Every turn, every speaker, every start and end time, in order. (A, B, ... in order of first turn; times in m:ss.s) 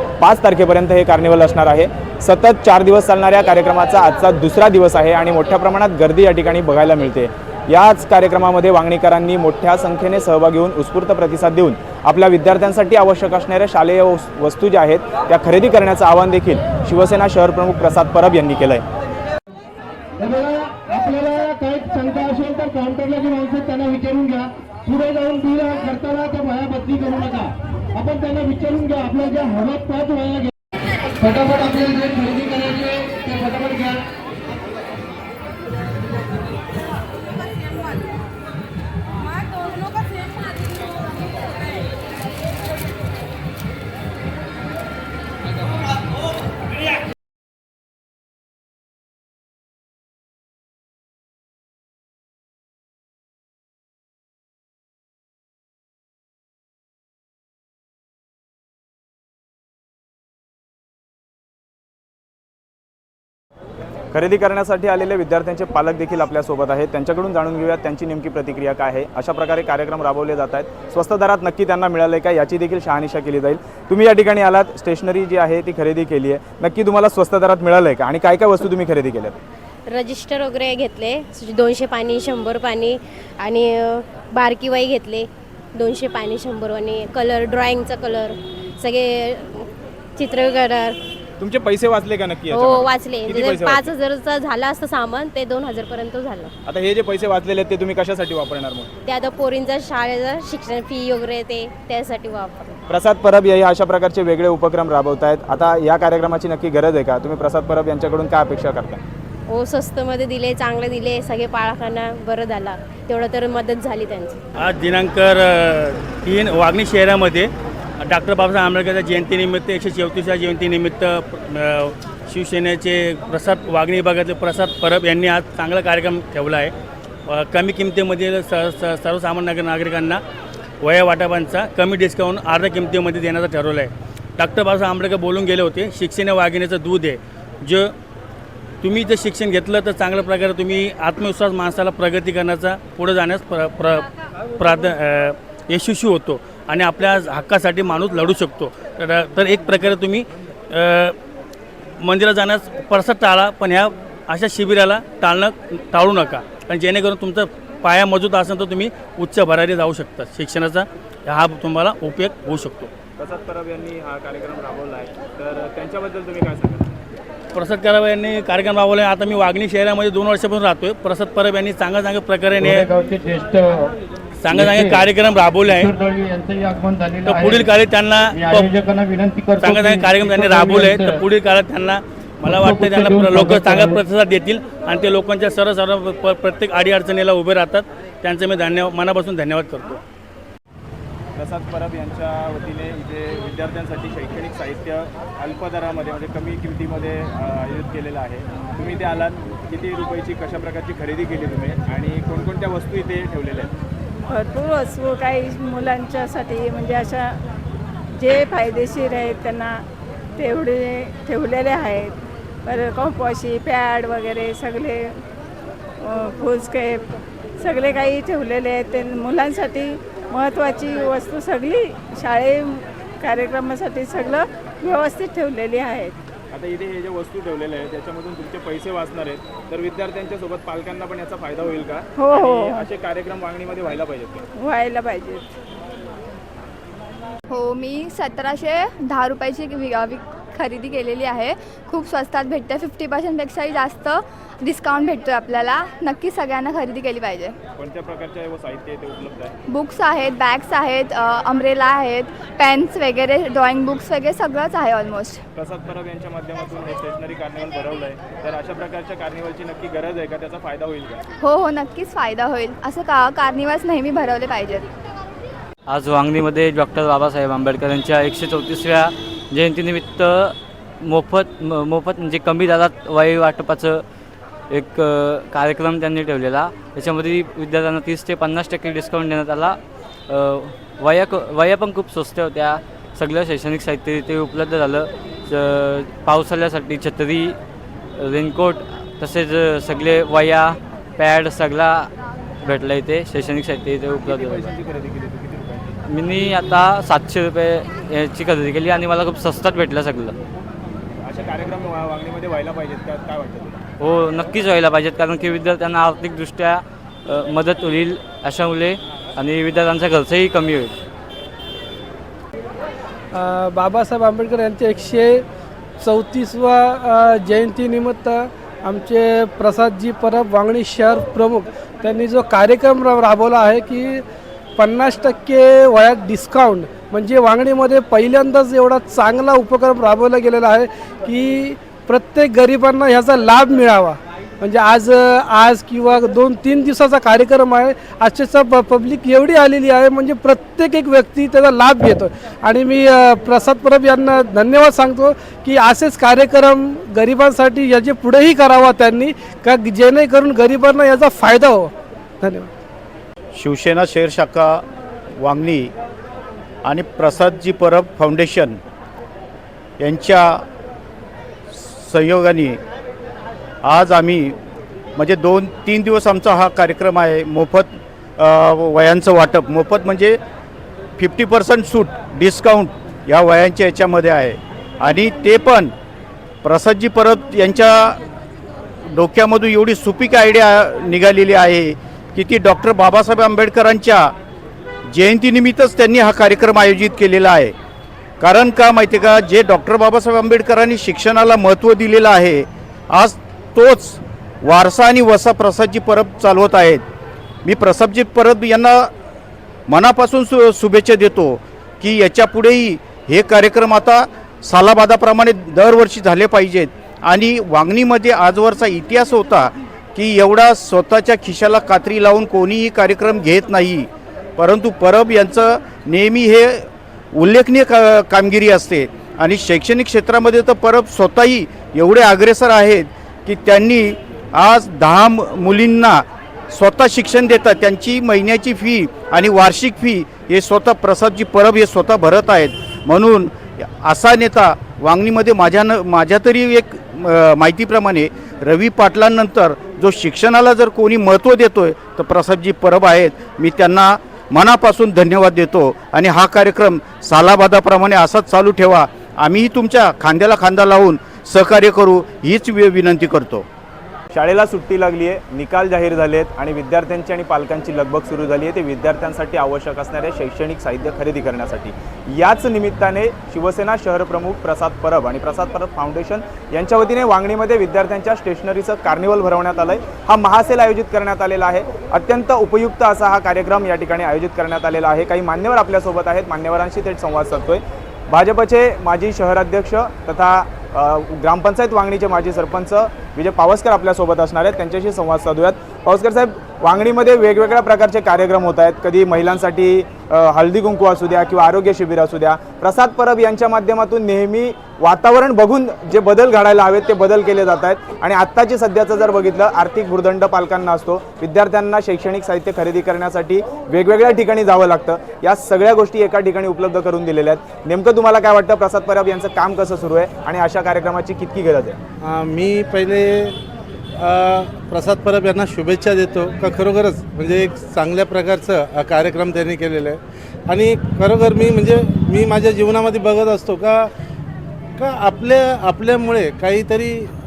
0:00.2-0:18.8 A
0:20.2-0:30.5 B
0:31.2-0:34.0 B
1:04.1-1:19.4 A
1:19.9-1:25.2 C
1:25.8-1:29.6 C
1:30.2-1:30.9 C
1:31.4-1:33.9 A
1:32.5-1:36.5 C
1:32.7-1:33.1 D
1:36.7-1:38.9 A
1:39.1-1:42.8 C
1:42.9-1:49.0 A
1:49.5-1:54.4 C
1:54.6-1:57.5 E
1:58.0-2:06.7 E
2:07.3-2:10.2 E
2:10.8-2:17.9 E
2:18.8-2:24.1 E
2:24.6-2:31.2 E
2:32.0-2:42.9 E
2:43.2-2:46.9 A
2:47.5-2:52.9 E
2:54.4-2:55.9 E
2:56.5-2:57.0 F
2:57.3-2:58.7 E
2:59.6-3:10.0 E
3:11.4-3:23.7 A
3:24.3-3:27.4 G
3:28.1-3:29.8 G
3:30.4-3:35.2 G
3:36.0-3:37.0 G
3:37.6-3:46.2 G
3:46.5-3:54.4 A
3:52.2-3:52.9 G
3:54.6-3:55.4 G
3:57.5-4:07.6 H
4:07.8-4:09.6 A
4:09.7-4:15.4 H
4:15.6-4:21.2 A
4:21.4-4:24.9 H
4:25.9-4:34.0 D
4:34.7-4:39.8 D
4:40.5-4:41.1 C
4:41.0-4:47.6 D
4:48.3-4:52.0 D
4:52.6-4:54.5 D
4:54.2-4:56.0 A
4:54.3-4:54.7 C
4:56.1-5:00.3 D
5:01.2-5:03.8 A
5:04.0-5:11.0 D
5:13.3-5:15.4 I
5:16.0-5:24.2 I
5:24.8-5:52.7 I
5:53.6-5:54.8 F
5:55.4-5:55.9 F
5:56.8-5:58.8 F
6:00.0-6:00.6 F
6:01.7-6:02.8 F
6:03.8-6:04.6 F
6:05.2-6:10.4 F
6:11.2-6:15.9 F
6:16.6-6:18.2 F
6:19.0-6:24.3 F
6:25.1-6:27.7 F
6:28.4-6:37.0 F
6:37.6-6:39.1 F
6:39.9-7:33.7 F
7:34.3-8:32.0 A
8:32.2-8:33.6 J
8:34.2-8:44.1 J
8:45.0-8:47.3 J